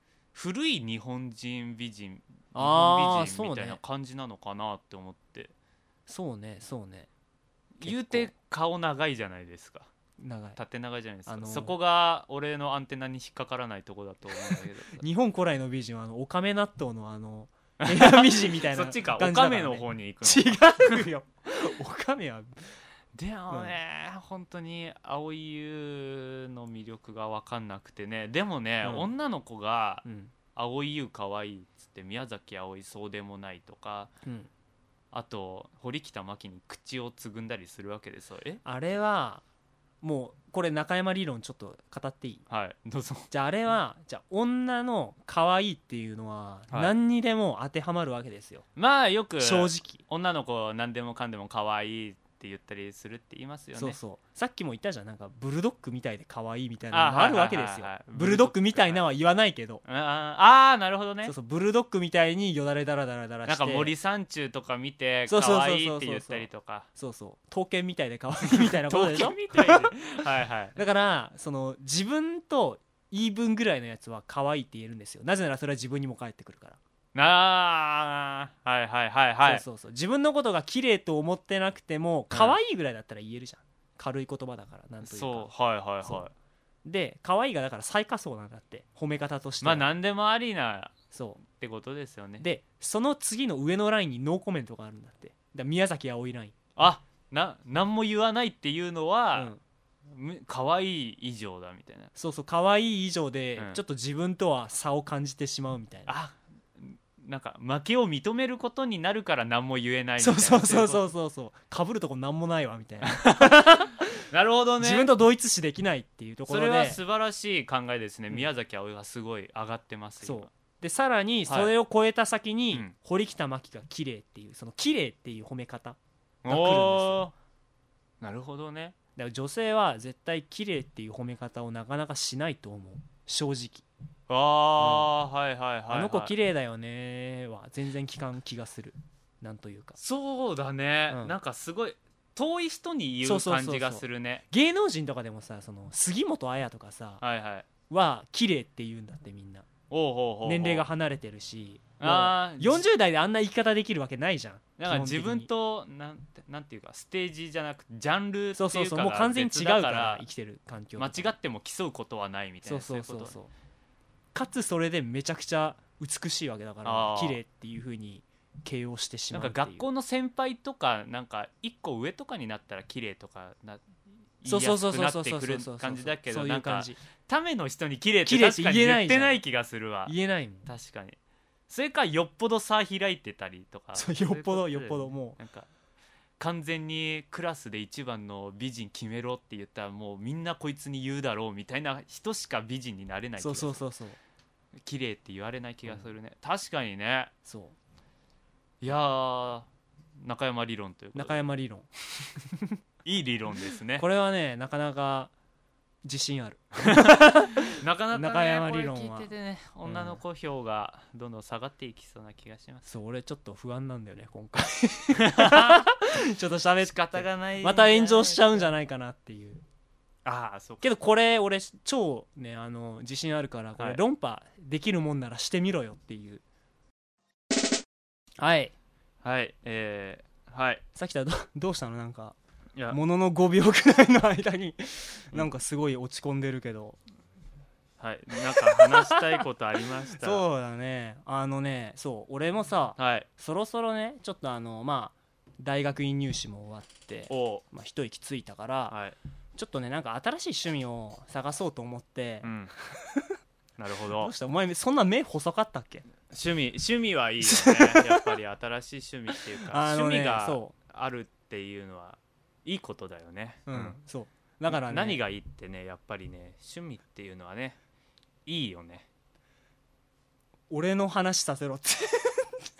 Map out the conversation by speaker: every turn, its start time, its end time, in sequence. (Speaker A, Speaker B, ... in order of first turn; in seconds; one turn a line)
Speaker A: 0.3-5.5
Speaker B: 2.5-3.8
Speaker B: 6.1-7.1
Speaker A: 7.8-9.9
Speaker B: 7.8-8.3
Speaker B: 10.2-10.6
Speaker A: 10.6-15.1
Speaker B: 11.3-11.8
Speaker B: 14.4-22.6
Speaker A: 17.8-21.1
Speaker A: 23.1-34.1
Speaker B: 30.1-30.3
Speaker B: 34.2-34.5
Speaker A: 35.1-38.6
Speaker B: 38.6-39.4
Speaker B: 40.0-42.5
Speaker A: 42.5-43.3
Speaker B: 43.3-48.6
Speaker A: 48.8-54.0
Speaker B: 49.4-50.0
Speaker B: 53.8-59.8
Speaker A: 56.9-59.1
Speaker A: 59.9-61.4
Speaker B: 61.2-63.9
Speaker A: 63.5-66.9
Speaker B: 65.3-70.1
Speaker A: 68.5-70.8
Speaker B: 70.8-76.8
Speaker A: 77.2-79.6
Speaker B: 79.4-85.5
Speaker A: 82.3-82.6
Speaker A: 85.0-86.3
Speaker B: 86.8-89.9
Speaker A: 89.6-92.5
Speaker B: 91.1-91.4
Speaker B: 92.4-96.5
Speaker A: 96.8-99.5
Speaker B: 99.3-99.6
Speaker A: 100.1-102.1
Speaker B: 102.2-106.1
Speaker A: 106.1-111.1
Speaker B: 110.2-114.2
Speaker A: 113.0-115.1
Speaker B: 114.8-117.0
Speaker A: 116.5-120.5
Speaker B: 120.2-127.2
Speaker A: 121.5-121.7
Speaker A: 126.4-127.3
Speaker A: 128.2-129.0
Speaker B: 129.2-133.8
Speaker A: 134.3-136.3
Speaker B: 134.8-135.1
Speaker B: 135.9-140.0
Speaker A: 140.0-144.4
Speaker B: 141.1-141.3
Speaker B: 143.2-147.2
Speaker A: 147.2-147.7
Speaker B: 147.9-149.7
Speaker A: 149.9-150.9
Speaker B: 150.4-155.5
Speaker A: 152.0-152.8
Speaker A: 154.8-160.2
Speaker B: 158.5-161.3
Speaker A: 161.0-163.4
Speaker B: 162.7-163.5
Speaker B: 164.3-169.9
Speaker A: 166.8-167.4
Speaker A: 169.3-173.8
Speaker A: 174.4-180.1
Speaker B: 174.4-177.0
Speaker B: 178.3-179.4
Speaker B: 180.1-180.7
Speaker A: 180.7-185.7
Speaker B: 183.9-185.4
Speaker A: 186.4-193.8
Speaker B: 193.4-194.2
Speaker A: 194.8-197.3
Speaker B: 197.4-197.8
Speaker A: 198.8-201.4
Speaker B: 201.1-202.8
Speaker A: 203.0-204.1
Speaker B: 204.0-205.3
Speaker B: 206.0-209.3
Speaker A: 206.8-212.9
Speaker B: 209.8-210.2
Speaker B: 212.9-219.6
Speaker A: 215.2-215.8
Speaker A: 216.8-218.7
Speaker A: 220.2-220.9
Speaker B: 220.8-226.4
Speaker A: 223.8-224.0
Speaker B: 228.4-228.7
Speaker A: 229.2-230.8
Speaker B: 230.9-232.4
Speaker B: 232.9-237.0
Speaker A: 238.0-240.4
Speaker B: 238.6-239.4
Speaker B: 240.2-249.0
Speaker A: 243.0-243.3
Speaker A: 247.3-247.6
Speaker A: 248.9-249.2
Speaker B: 249.6-253.4
Speaker A: 252.4-252.7
Speaker A: 253.8-254.3
Speaker B: 254.2-256.1
Speaker A: 256.3-264.0
Speaker B: 257.4-258.3
Speaker B: 259.6-260.7
Speaker B: 263.7-265.2
Speaker A: 264.7-267.8
Speaker A: 268.5-269.1
Speaker B: 270.7-272.6